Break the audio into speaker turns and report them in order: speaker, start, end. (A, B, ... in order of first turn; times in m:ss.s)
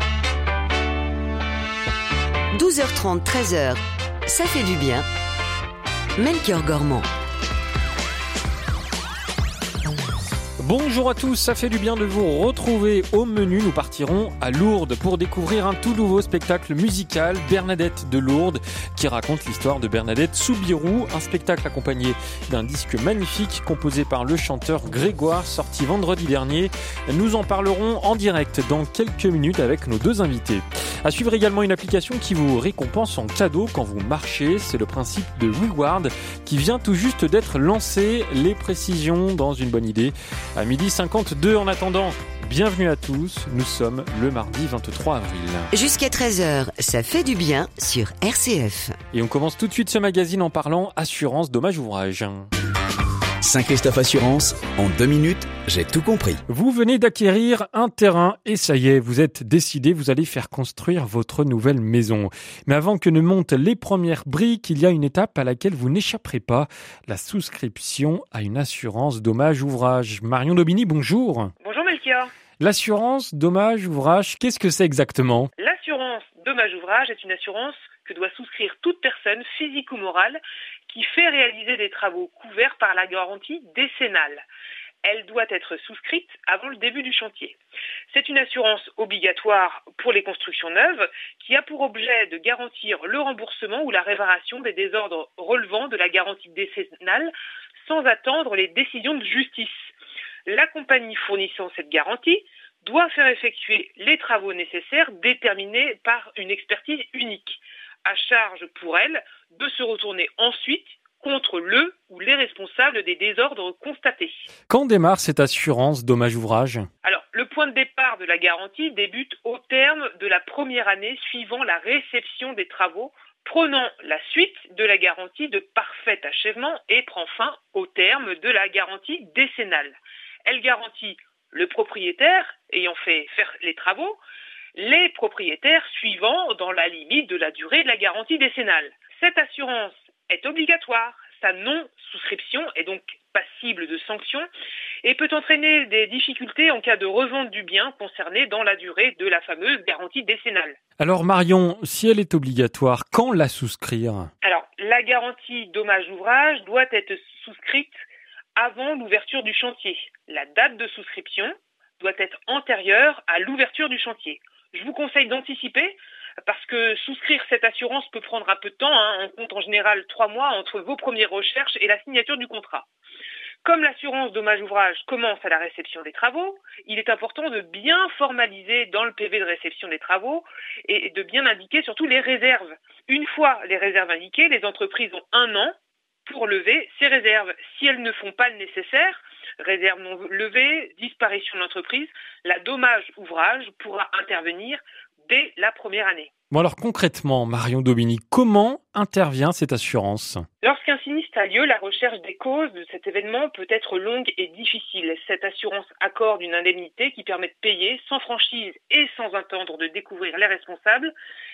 0:02.5-0:05.1 A
0:06.2-0:07.1 A
0:10.6-0:45.7 B
0:45.7-0:49.0 A
0:49.1-0:52.5 B
0:53.4-0:56.4 C
0:56.5-1:11.5 B
1:11.6-1:12.3 D
1:12.6-1:15.5 B
1:15.6-1:24.4 D
1:25.0-1:27.6 D
1:28.1-1:37.3 D
1:37.8-1:39.9 D
1:40.5-1:54.5 D
1:54.7-1:56.9 B
1:57.0-2:14.2 D
2:14.8-2:24.5 D
2:25.0-2:30.8 D
2:31.0-2:34.3 B
2:34.4-2:38.0 D
2:38.6-2:52.9 D
2:53.6-3:05.8 D
3:06.3-3:16.3 D
3:16.5-3:20.4 B
3:20.6-3:31.1 D